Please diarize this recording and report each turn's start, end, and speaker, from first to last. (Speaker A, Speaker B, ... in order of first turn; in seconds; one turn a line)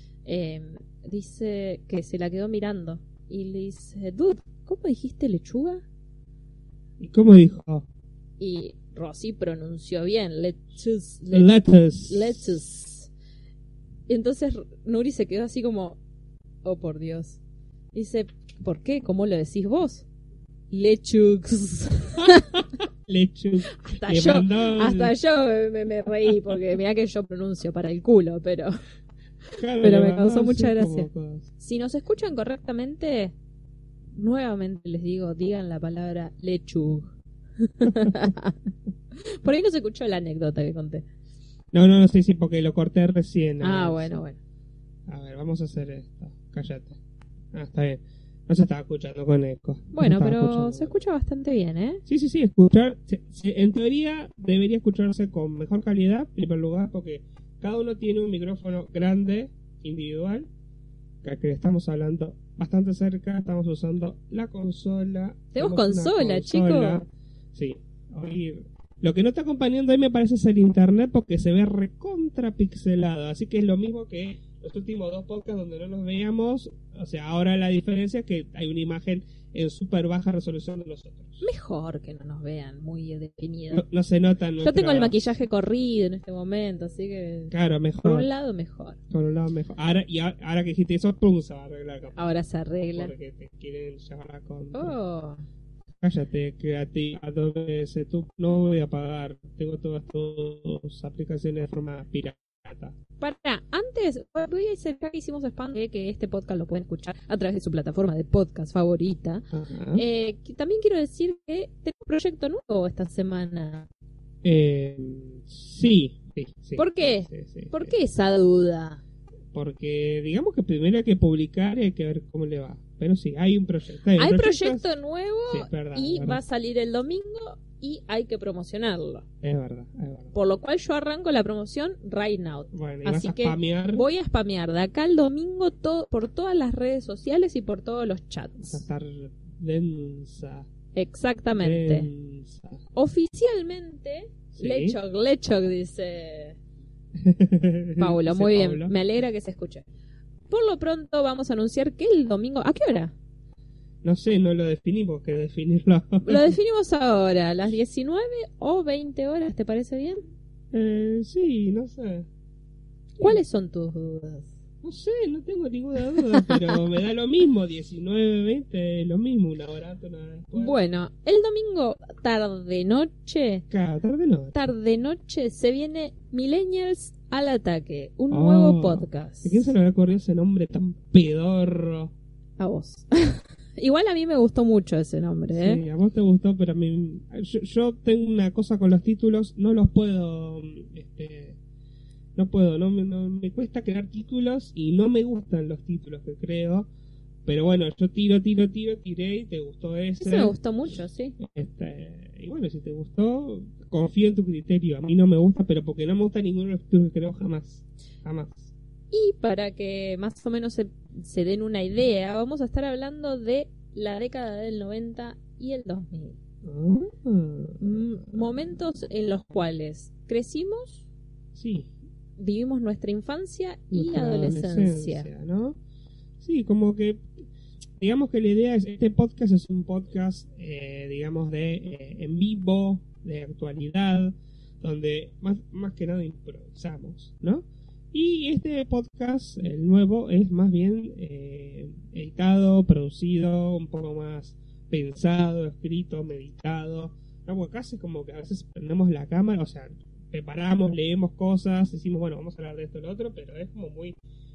Speaker A: 0.2-5.8
Speaker B: 7.0-7.8
Speaker A: 8.4-13.1
Speaker B: 11.3-12.5
Speaker A: 14.1-16.0
Speaker A: 16.6-17.4
Speaker A: 17.9-20.1
Speaker A: 20.7-22.6
Speaker B: 22.2-25.1
Speaker A: 23.8-28.7
Speaker B: 29.6-31.4
Speaker A: 29.8-31.1
Speaker A: 31.6-33.3
Speaker A: 34.1-41.0
Speaker B: 41.7-44.1
Speaker A: 43.6-44.4
Speaker B: 45.1-47.0
Speaker B: 47.5-51.0
Speaker A: 49.9-52.0
Speaker B: 52.0-60.5
Speaker B: 61.2-81.4
Speaker A: 65.5-67.0
Speaker A: 81.4-83.8
Speaker B: 83.7-85.2
Speaker A: 84.6-89.0
Speaker B: 87.5-88.3
Speaker B: 89.1-92.2
Speaker A: 92.2-93.1
Speaker B: 92.9-94.9
Speaker A: 94.7-95.4
Speaker B: 96.0-102.9
Speaker A: 103.2-113.9
Speaker B: 109.5-110.0
Speaker B: 114.4-118.0
Speaker A: 116.8-119.0
Speaker B: 119.5-124.9
Speaker A: 124.2-129.2
Speaker B: 125.5-126.4
Speaker B: 129.4-130.3
Speaker A: 130.3-138.8
Speaker B: 132.7-134.0
Speaker B: 138.6-140.7
Speaker A: 140.9-142.1
Speaker B: 141.5-142.8
Speaker A: 142.9-146.6
Speaker B: 144.5-145.0
Speaker B: 147.2-148.9
Speaker A: 148.0-149.8
Speaker A: 150.5-153.1
Speaker B: 154.0-156.5
Speaker A: 156.2-160.2
Speaker B: 160.7-162.3
Speaker A: 163.2-164.5
Speaker B: 164.8-170.8
Speaker A: 166.3-166.7
Speaker A: 170.5-173.6
Speaker B: 173.7-174.5
Speaker A: 174.5-179.7
Speaker B: 178.3-182.1
Speaker A: 182.6-185.8
Speaker B: 185.5-191.6
Speaker B: 192.3-196.9
Speaker B: 197.4-200.6
Speaker A: 200.2-201.3
Speaker B: 201.4-208.7
Speaker A: 209.1-216.4
Speaker B: 216.6-218.6
Speaker A: 217.8-221.0
Speaker B: 221.5-221.9
Speaker A: 222.4-225.3
Speaker B: 223.9-225.8
Speaker B: 226.4-227.3
Speaker B: 228.0-254.2